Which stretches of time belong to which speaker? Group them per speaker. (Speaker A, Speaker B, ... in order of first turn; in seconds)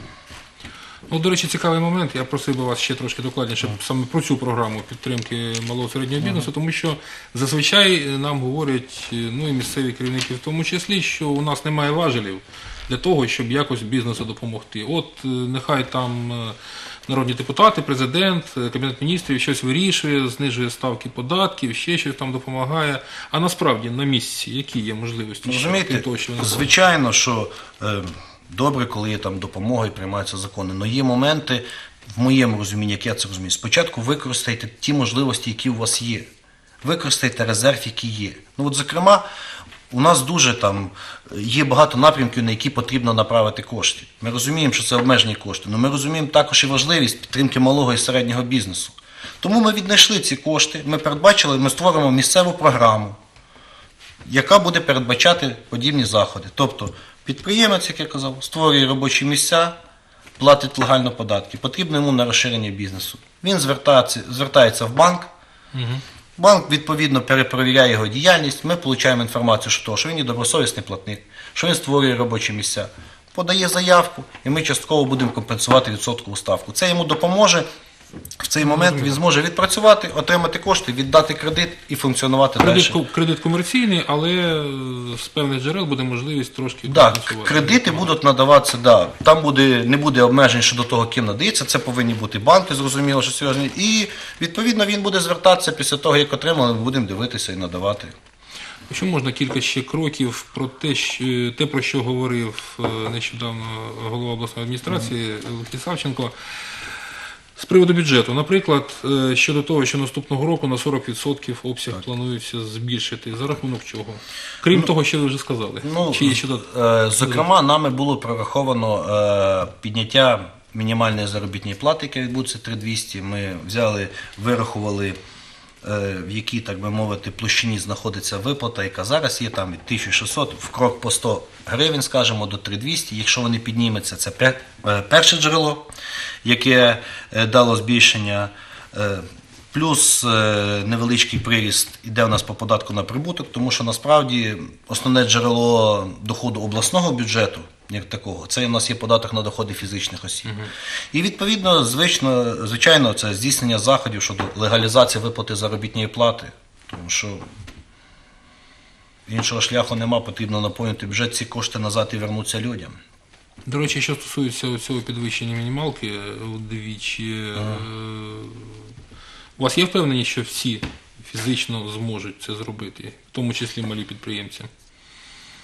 Speaker A: 1.1-26.7, 65.7-66.0, 78.6-79.2, 82.6-88.1, 98.9-106.3, 107.6-116.7, 117.2-117.5, 150.4-150.7, 163.7-168.8, 169.6-174.7
Speaker B: 25.4-36.3, 36.8-39.2, 39.9-53.2, 54.2-59.8, 60.4-65.3, 66.4-77.7, 78.4-83.0, 86.9-98.1, 115.8-125.2, 125.8-135.9, 136.4-150.6, 151.1-157.4, 159.3-163.0